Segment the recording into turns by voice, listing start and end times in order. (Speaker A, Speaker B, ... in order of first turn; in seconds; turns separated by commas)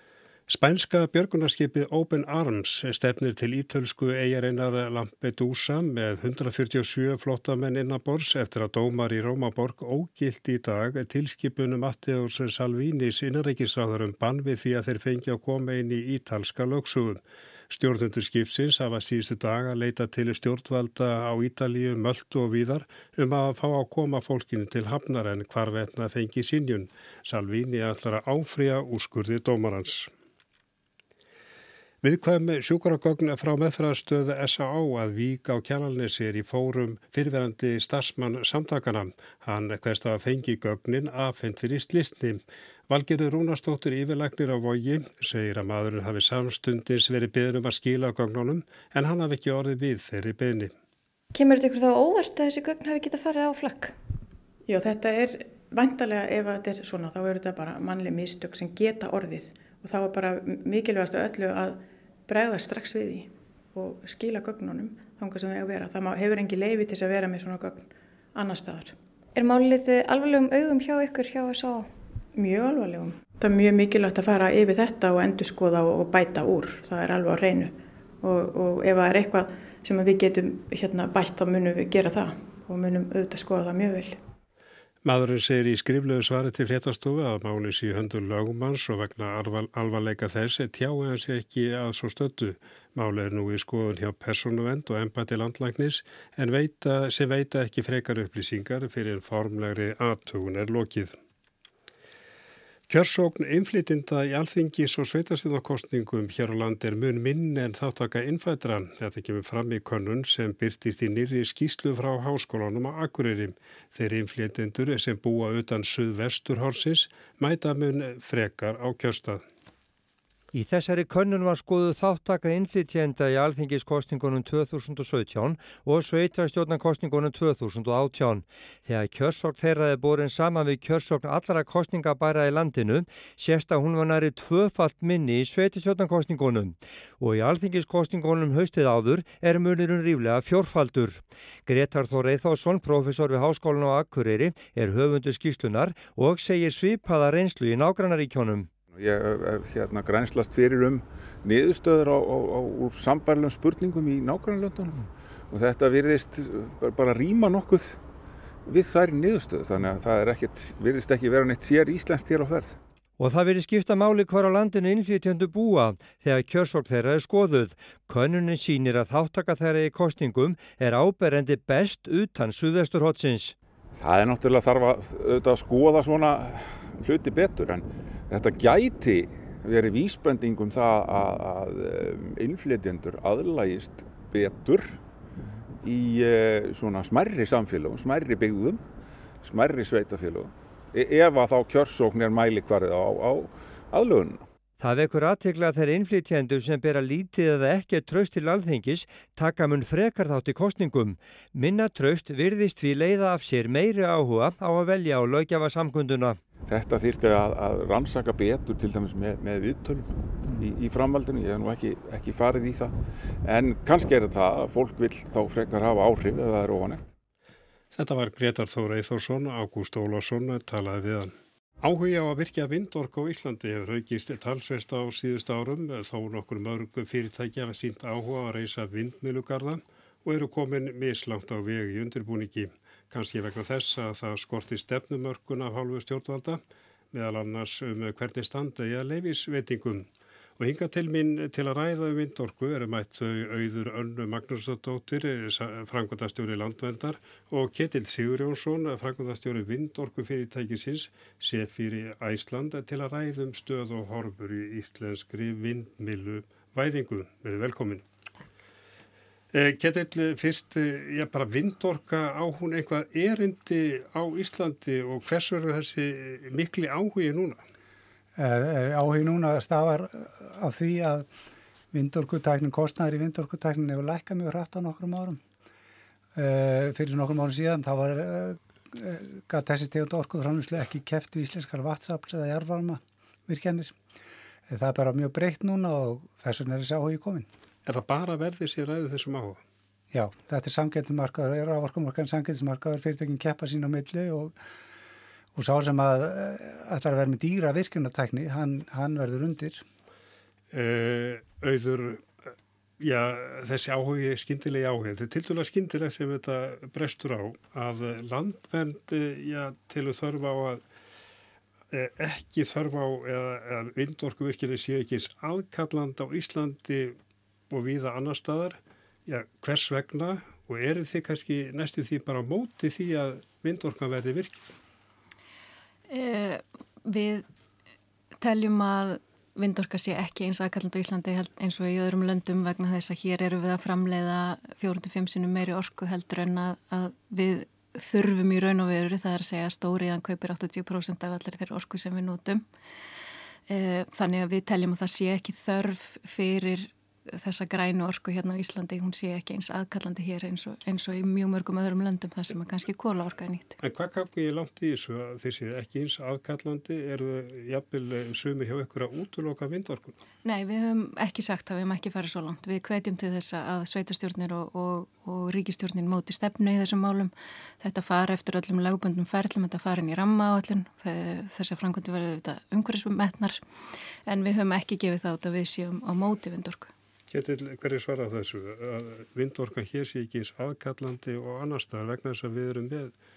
Speaker A: 0.5-30.1, Speaker A: 32.0-50.7, Speaker B: 51.3-53.9, Speaker C: 54.7-69.0, Speaker B: 69.3-71.9, Speaker C: 72.3-84.2, Speaker A: 85.0-101.1, Speaker A: 102.9-119.4, Speaker D: 120.5-148.7, Speaker E: 148.9-158.0, Speaker E: 158.7-162.8, Speaker D: 163.2-173.5, Speaker E: 173.9-185.0, Speaker E: 185.8-188.8, Speaker E: 189.4-194.4, Speaker D: 194.8-206.4, Speaker E: 206.6-217.1, Speaker A: 217.9-236.6, Speaker A: 237.1-258.0, Speaker A: 259.5-267.6, Speaker F: 268.4-271.3, Speaker F: 271.9-275.4, Speaker F: 276.3-283.9, Speaker F: 284.7-287.5, Speaker A: 287.9-289.6, Speaker F: 290.1-294.5, Speaker F: 295.5-299.8, Speaker A: 300.7-302.2, Speaker A: 303.0-310.8, Speaker A: 311.9-317.1, Speaker A: 317.7-324.7, Speaker G: 326.1-327.4, Speaker G: 328.4-342.6, Speaker G: 343.7-353.8, Speaker A: 353.8-360.1, Speaker G: 360.4-373.6, Speaker G: 374.3-376.9, Speaker A: 377.3-383.1